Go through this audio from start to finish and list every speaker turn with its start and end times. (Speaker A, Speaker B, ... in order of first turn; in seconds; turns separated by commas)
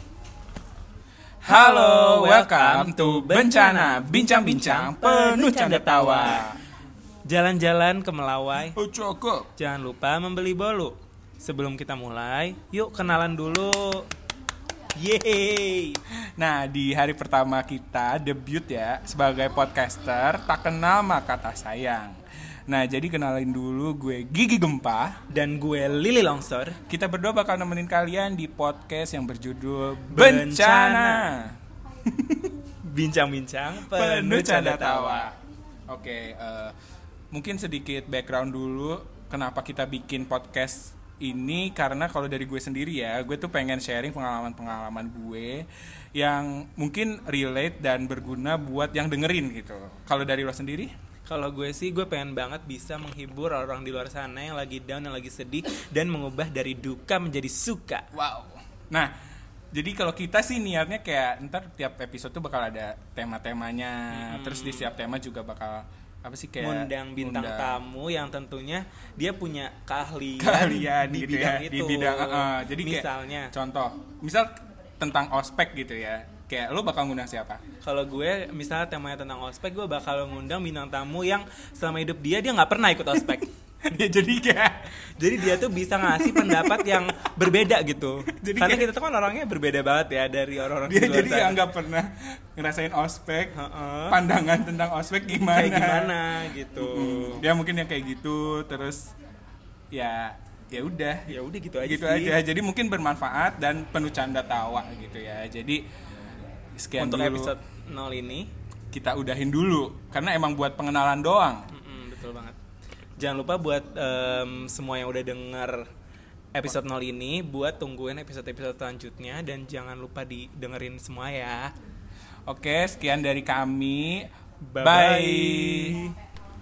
Speaker A: 1.4-6.6, Speaker B: 1.4-6.5, Speaker B: 7.2-8.8, Speaker A: 8.7-9.5, Speaker B: 9.5-14.1, Speaker B: 14.9-16.0, Speaker A: 16.4-25.2, Speaker B: 25.3-26.8, Speaker A: 26.9-32.5, Speaker B: 30.1-31.3, Speaker B: 32.8-35.3, Speaker A: 33.8-35.4, Speaker A: 35.9-36.7, Speaker A: 37.3-50.9, Speaker B: 51.3-58.1, Speaker A: 58.1-59.1, Speaker A: 59.7-67.8, Speaker B: 64.1-64.9, Speaker B: 66.6-73.5, Speaker A: 70.4-77.6, Speaker B: 77.8-83.5, Speaker A: 83.4-84.9, Speaker B: 85.0-91.6, Speaker A: 86.1-87.0, Speaker A: 88.3-88.9, Speaker A: 90.9-93.5, Speaker B: 93.5-94.2, Speaker A: 94.1-99.1, Speaker B: 95.3-97.4, Speaker A: 99.9-105.8, Speaker B: 101.3-102.4, Speaker A: 106.7-107.5, Speaker B: 107.0-108.5, Speaker A: 108.9-111.7, Speaker B: 111.7-112.6, Speaker B: 113.2-115.9, Speaker B: 116.5-121.7, Speaker A: 122.5-124.3, Speaker B: 124.6-126.1, Speaker A: 124.8-126.0